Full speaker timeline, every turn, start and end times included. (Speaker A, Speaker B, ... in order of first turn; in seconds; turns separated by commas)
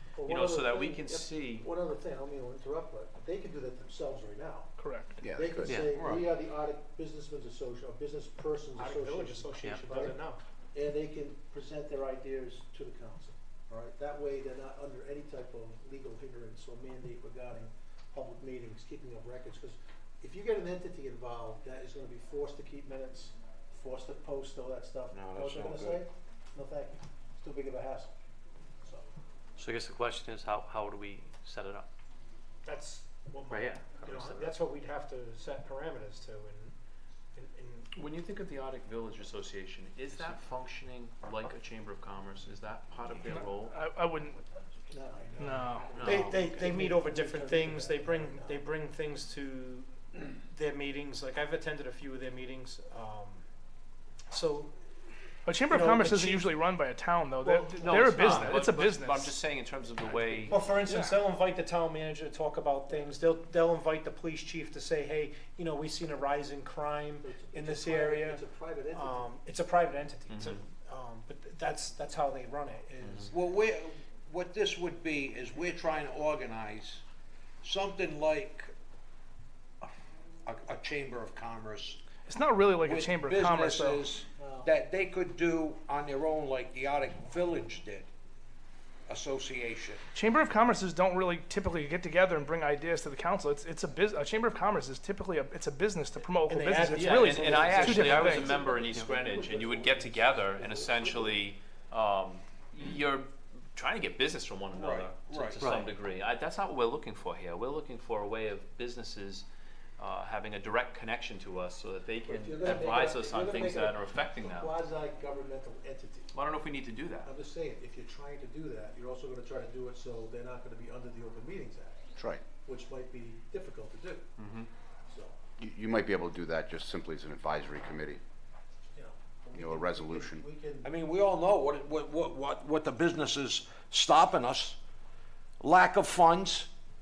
Speaker A: 0.2-10.2, Speaker B: 0.3-1.7, Speaker C: 4.8-5.2, Speaker D: 5.2-5.8, Speaker E: 5.7-6.0, Speaker F: 5.9-6.2, Speaker G: 8.8-10.4, Speaker E: 9.6-9.9, Speaker A: 10.7-28.1, Speaker F: 25.1-26.0, Speaker E: 29.6-31.9, Speaker G: 32.6-36.7, Speaker E: 33.5-34.5, Speaker B: 33.6-34.0, Speaker G: 37.4-37.9, Speaker B: 37.9-43.8, Speaker C: 43.2-44.4, Speaker A: 44.9-48.6, Speaker C: 45.4-46.0, Speaker B: 46.0-46.5, Speaker F: 46.0-46.3, Speaker G: 46.0-53.4, Speaker G: 54.3-54.7, Speaker C: 55.5-59.3, Speaker G: 55.7-56.5, Speaker B: 57.8-60.6, Speaker A: 57.8-58.1, Speaker A: 60.3-60.7, Speaker G: 60.5-73.3, Speaker C: 60.9-61.2, Speaker A: 67.2-69.3, Speaker B: 70.3-70.6, Speaker F: 73.3-77.0, Speaker F: 77.6-78.7, Speaker F: 80.5-82.0, Speaker C: 82.3-84.0, Speaker F: 82.8-88.1, Speaker A: 84.4-84.8, Speaker F: 89.1-90.0, Speaker C: 90.1-98.6, Speaker G: 96.5-98.1, Speaker B: 96.9-109.5, Speaker A: 97.3-101.4, Speaker F: 104.7-105.7, Speaker E: 105.6-105.9, Speaker B: 110.0-114.8, Speaker A: 112.3-116.3, Speaker B: 116.3-117.3, Speaker A: 117.2-122.0, Speaker D: 122.2-122.4, Speaker A: 122.6-124.2, Speaker B: 124.4-124.7, Speaker A: 125.1-125.3, Speaker D: 125.6-128.2, Speaker A: 128.9-130.9, Speaker D: 129.6-130.4, Speaker F: 130.8-134.8, Speaker F: 135.6-136.7